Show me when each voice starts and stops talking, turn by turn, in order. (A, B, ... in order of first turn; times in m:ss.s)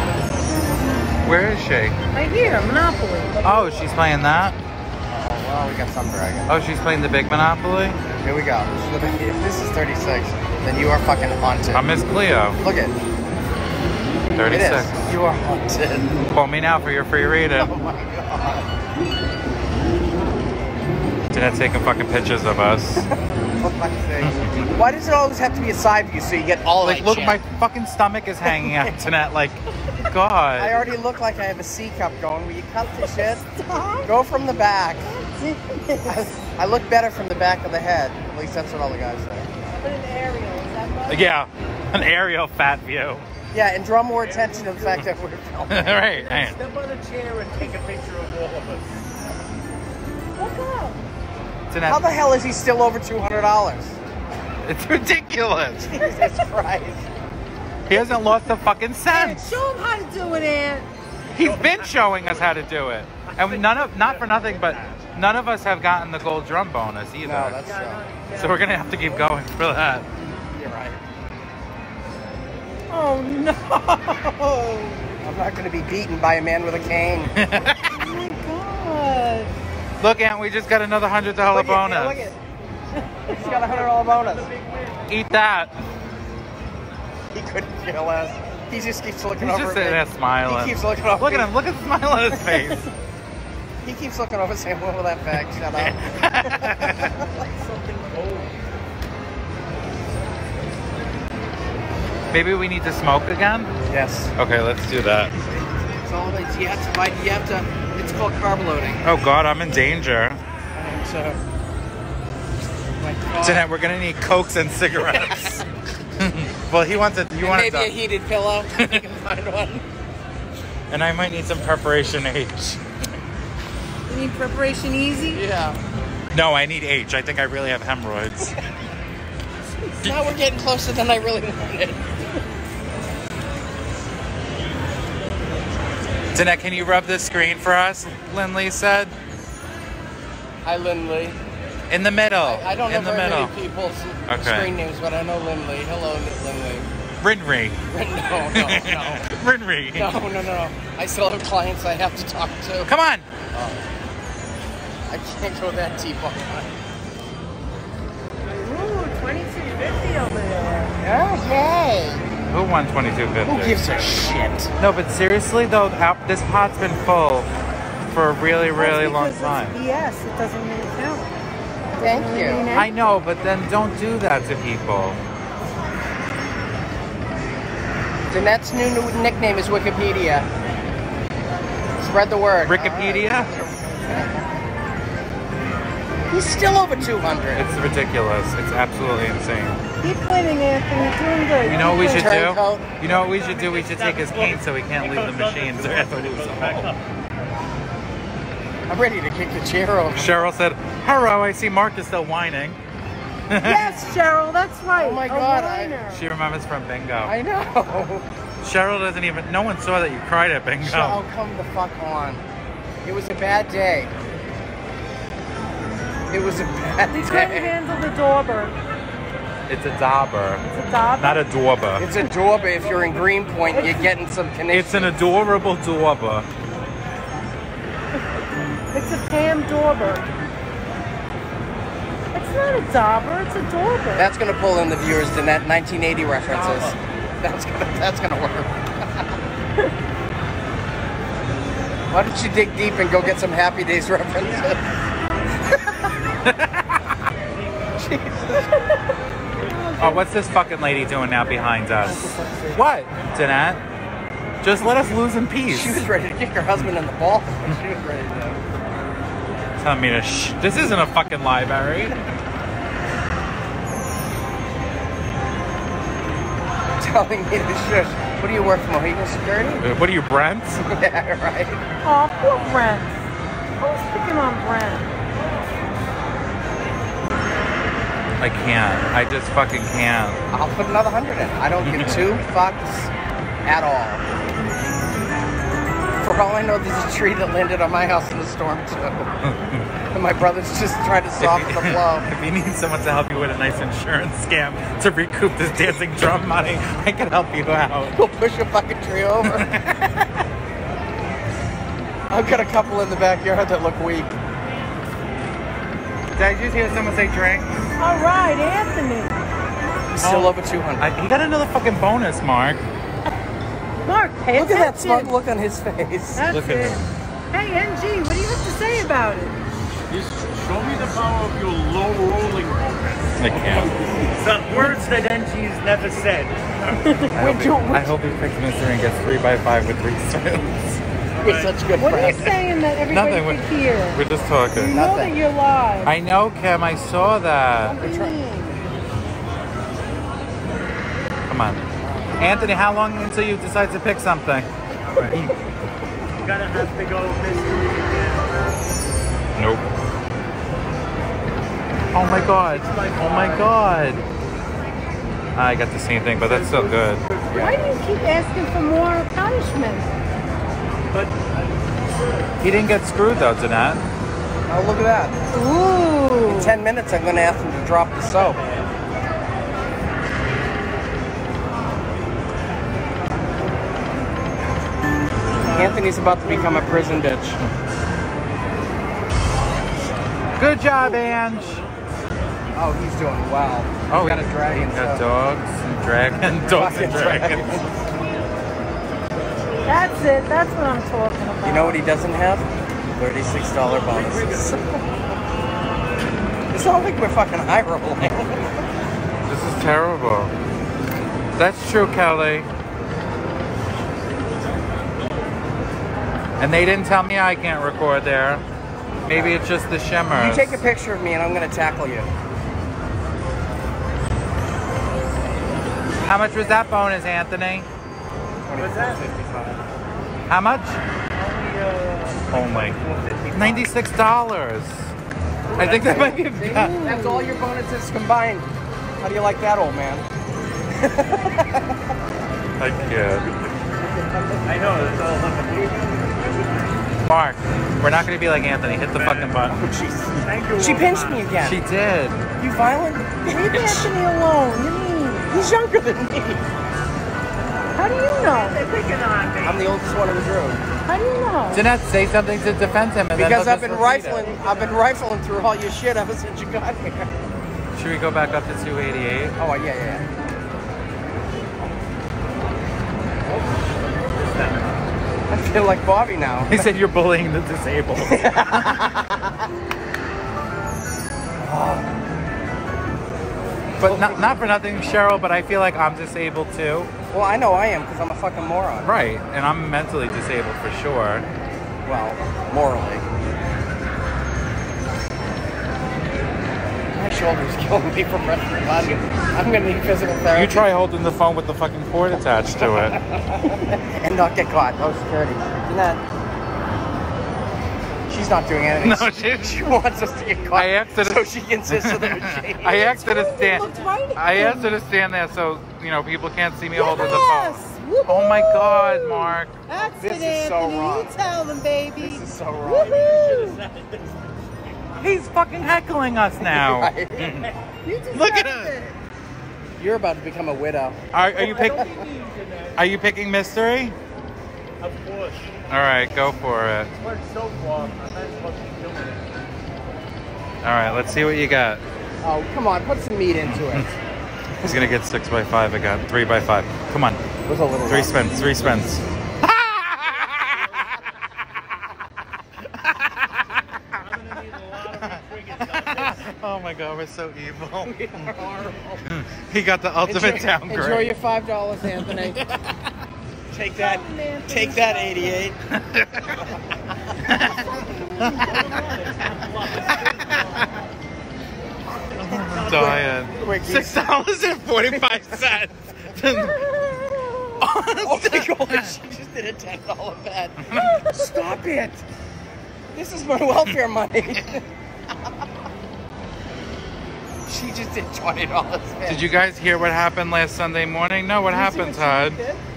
0:01.2-0:02.0 A
0:02.1-0:03.4 B
0:03.4-0:04.6 A
0:05.1-0:06.5 C
0:06.5-0:08.0 A
0:08.2-0:11.8 C
0:11.7-0:12.6 A
0:12.6-0:12.9 C
0:14.4-0:15.1 A
0:14.5-0:16.2 C
0:16.3-0:17.7 A
0:17.6-0:18.6 C
0:21.3-0:23.1 A
0:23.1-0:27.4 C
0:24.2-0:24.7 A
0:26.8-0:30.7 A
0:28.4-0:29.0 C
0:30.6-0:33.4 C
0:33.0-0:34.1 B
0:34.0-0:35.1 C
0:35.0-0:36.4 B
0:36.0-0:39.5 C
0:39.7-0:41.2 B
0:41.1-0:43.2 A
0:43.5-0:46.0 C
0:44.2-0:45.1 D
0:45.7-0:46.6 A
0:46.0-0:49.0 D
0:50.4-0:51.0 B
0:51.7-0:52.0 A
0:51.9-0:54.0 C
0:54.6-0:56.0 A
0:55.9-0:57.0 C
0:57.9-0:59.6 A
0:59.1-1:00.9 B
1:01.3-1:02.6 D
1:01.3-1:07.6 A
1:03.2-1:05.1 D
1:07.2-1:08.0 C
1:07.6-1:09.4 D
1:08.3-1:10.0 A
1:10.5-1:11.0 C
1:12.9-1:15.0 B
1:15.2-1:17.3 C
1:17.3-1:17.9 A
1:18.0-1:19.5 B
1:20.0-1:22.3 A
1:21.5-1:22.4 C
1:23.3-1:24.5 C
1:23.3-1:25.0 D
1:25.1-1:25.7 A
1:27.3-1:31.5 C
1:29.4-1:32.9 A
1:33.8-1:37.4 C
1:35.6-1:37.1 A
1:37.3-1:38.6 D
1:42.3-1:43.7 A
1:43.9-1:44.3 C
1:44.4-1:45.3 A
1:45.4-1:49.0 C
1:49.0-1:50.4 A
1:50.7-1:51.4 C
1:53.0-1:53.6 C
1:53.4-1:55.6 A
1:55.0-1:55.6 C
1:56.2-1:57.9 A
1:57.3-1:59.8 C
1:58.7-1:59.0 A
2:00.9-2:02.8 A
2:04.1-2:05.4 B
2:05.3-2:05.8 C
2:06.3-2:08.5 A
2:10.0-2:12.1 C
2:10.0-2:10.3 A
2:16.3-2:19.1 A
2:20.6-2:21.4 C
2:21.9-2:23.5 A
2:22.4-2:26.9 C
2:24.3-2:24.7 A
2:27.2-2:27.8 A
2:27.9-2:29.3 C
2:28.5-2:30.1 A
2:29.9-2:32.9 C
2:32.8-2:33.2 A
2:33.5-2:33.8 C
2:35.1-2:36.6 C
2:38.6-2:40.9 B
2:41.0-2:42.2 C
2:42.5-2:43.8 A
2:43.4-2:44.7 C
2:44.8-2:47.5 A
2:48.1-2:49.8 A
2:48.8-2:51.3 B
2:52.0-2:52.7 C
2:52.0-2:53.0 B
2:52.6-2:55.2 A
2:58.3-3:00.5 C
3:02.0-3:04.3 C
3:02.6-3:03.5 A
3:06.3-3:07.6 C
3:07.5-3:09.8 A
3:10.0-3:12.2 B
3:11.6-3:16.9 A
3:11.7-3:12.9 C
3:13.0-3:17.0 D
3:18.9-3:20.4 C
3:20.1-3:22.8 A
3:23.5-3:23.9 A
3:23.6-3:26.3 B
3:25.0-3:26.0 C
3:26.1-3:27.3 A
3:27.2-3:28.2 C
3:28.6-3:31.2 A
3:30.8-3:32.4 C
3:33.0-3:34.1 C
3:36.3-3:37.7 C
3:37.1-3:38.7 B
3:39.7-3:40.6 A
3:40.7-3:41.4 B
3:41.2-3:42.0 A
3:42.0-3:45.1 C
3:42.5-3:43.8 D
3:43.7-3:44.1 B
3:44.7-3:46.5 A
3:48.9-3:50.3 B
3:52.3-3:54.3 B
3:54.2-3:59.2 C
3:56.6-3:56.9 D
4:02.1-4:04.8 C
4:06.4-4:07.2 A
4:08.0-4:08.6 C
4:08.6-4:09.0 B
4:09.6-4:10.2 B
4:10.0-4:13.8 A
4:12.0-4:12.8 C
4:14.6-4:16.1 A
4:14.8-4:18.6 C
4:19.8-4:22.2 A
4:27.0-4:29.8 C
4:29.8-4:30.8 A
4:30.8-4:31.8 C
4:32.0-4:33.2 B
4:33.8-4:35.1 B
4:38.4-4:40.4 A
4:40.5-4:43.1 C
4:41.8-4:42.3 A
4:43.6-4:44.2 C
4:46.2-4:49.3 C
4:49.4-4:49.9 A
4:50.1-4:52.3 C
4:51.4-4:58.2 A
4:58.1-4:59.7 C
4:59.4-5:00.2 A
5:02.3-5:04.3 C
5:06.3-5:07.7 A
5:08.0-5:09.3 B
5:10.1-5:11.1 C
5:10.2-5:12.8 A
5:14.0-5:15.3 B
5:14.5-5:16.5 C
5:16.3-5:19.6 B
5:16.5-5:17.0 A
5:20.1-5:27.0 D
5:23.4-5:23.9 A
5:24.8-5:25.1 B
5:27.0-5:27.6 B
5:27.3-5:31.0 A
5:27.4-5:28.1 C
5:31.4-5:31.8 D
5:31.4-5:32.5 C
5:31.9-5:34.2 B
5:33.1-5:35.0 A
5:34.7-5:36.1 B
5:34.9-5:35.3 C
5:36.0-5:38.0 A
5:37.8-5:38.8 B
5:38.0-5:38.3 C
5:41.5-5:41.8 A
5:42.0-5:42.4 C
5:42.4-5:45.5 A
5:46.4-5:48.4 D
5:49.6-5:49.8 A
5:52.1-5:54.2 A
5:52.4-5:53.7 D
5:55.5-5:57.2 A
5:56.3-5:58.0 D
5:57.5-5:57.8 C
5:57.5-6:00.1 B
6:01.1-6:01.7 D
6:02.6-6:04.0 A
6:04.7-6:05.4 C
6:05.5-6:06.8 B
6:06.4-6:08.6 C
6:08.4-6:08.8 D
6:15.6-6:17.6 C
6:15.6-6:15.9 B
6:20.6-6:21.8 A
6:22.7-6:25.2 C
6:24.1-6:27.8 A
6:26.6-6:27.9 C
6:29.8-6:32.0 B
6:31.6-6:35.0 C
6:34.1-6:34.6 D
6:36.7-6:38.8 C
6:39.4-6:40.5 A
6:41.6-6:42.7 A
6:46.6-6:48.6 A
6:49.2-6:49.6 C
6:49.2-6:50.8 A
6:50.3-6:52.3 C
6:56.2-6:57.9 A
6:58.6-6:59.8 C
6:58.7-6:59.3 D
7:00.5-7:01.0 A
7:01.3-7:03.9 D
7:02.5-7:03.0 A
7:03.5-7:05.1 A
7:05.7-7:08.7 C
7:05.7-7:06.3 D
7:05.8-7:07.0 A
7:06.5-7:07.6 B
7:09.2-7:10.2 C
7:11.0-7:11.9 C
7:12.8-7:13.5 A
7:14.6-7:16.7 D
7:17.3-7:19.8 A
7:19.1-7:19.6 D
7:19.7-7:21.8 C
7:20.4-7:21.5 D
7:21.6-7:22.4 A
7:22.6-7:24.1 C
7:23.5-7:25.7 B
7:25.5-7:26.6 C
7:27.9-7:28.8 B
7:28.7-7:29.8 D
7:29.6-7:30.8 C
7:31.0-7:31.9 B
7:31.7-7:34.2 A
7:33.4-7:37.3 C
7:34.0-7:35.0 D
7:37.9-7:39.5 A
7:39.6-7:40.2 C
7:43.5-7:44.8 D
7:45.5-7:46.8 C
7:46.7-7:49.1 A
7:48.2-7:49.4 C
7:51.6-7:52.1 C
7:54.0-7:54.6 C
7:54.0-7:57.1 A
7:57.3-7:59.1 C
7:59.0-8:01.4 A
8:02.0-8:03.2 C
8:07.1-8:10.9 C
8:10.5-8:13.2 A
8:12.8-8:16.2 C
8:18.3-8:23.1 C
8:19.0-8:20.0 A
8:20.7-8:29.8 A
8:22.9-8:25.0 B
8:26.9-8:33.8 B
8:29.9-8:31.3 C
8:32.2-8:33.2 C
8:32.8-8:35.2 D
8:35.2-8:37.7 A
8:36.6-8:37.6 C
8:37.4-8:37.7 D
8:38.0-8:39.1 B
8:38.3-8:39.0 A
8:40.0-8:41.2 C
8:41.3-8:42.1 A
8:41.5-8:43.0 D
8:43.0-8:44.2 A
8:45.0-8:45.7 D
8:45.9-8:47.1 A
8:47.2-8:49.4 D
8:50.8-8:52.0 A
8:52.4-8:54.1 C
8:53.6-8:54.1 A
8:54.8-8:57.4 A
8:57.6-8:58.4 C
8:58.1-9:01.2 A
9:00.4-9:01.2 D
9:02.8-9:04.0 A
9:04.2-9:06.6 D
9:05.1-9:08.4 A
9:08.0-9:09.2 C
9:09.3-9:11.3 A
9:10.2-9:12.7 C
9:12.0-9:13.0 A
9:13.7-9:15.8 C
9:13.9-9:15.7 B
9:15.9-9:16.7 A
9:17.4-9:19.0 A
9:17.7-9:18.8 B
9:18.6-9:20.9 D
9:20.0-9:20.9 A
9:22.3-9:23.3 D
9:22.4-9:24.2 C
9:22.4-9:26.8 A
9:25.1-9:25.7 C
9:26.5-9:27.8 B
9:27.8-9:29.2 A
9:28.2-9:32.2 C
9:30.8-9:31.2 A
9:30.9-9:31.5 B
9:33.1-9:34.9 C
9:37.6-9:39.5 C
9:39.2-9:42.6 A
9:41.7-9:42.8 B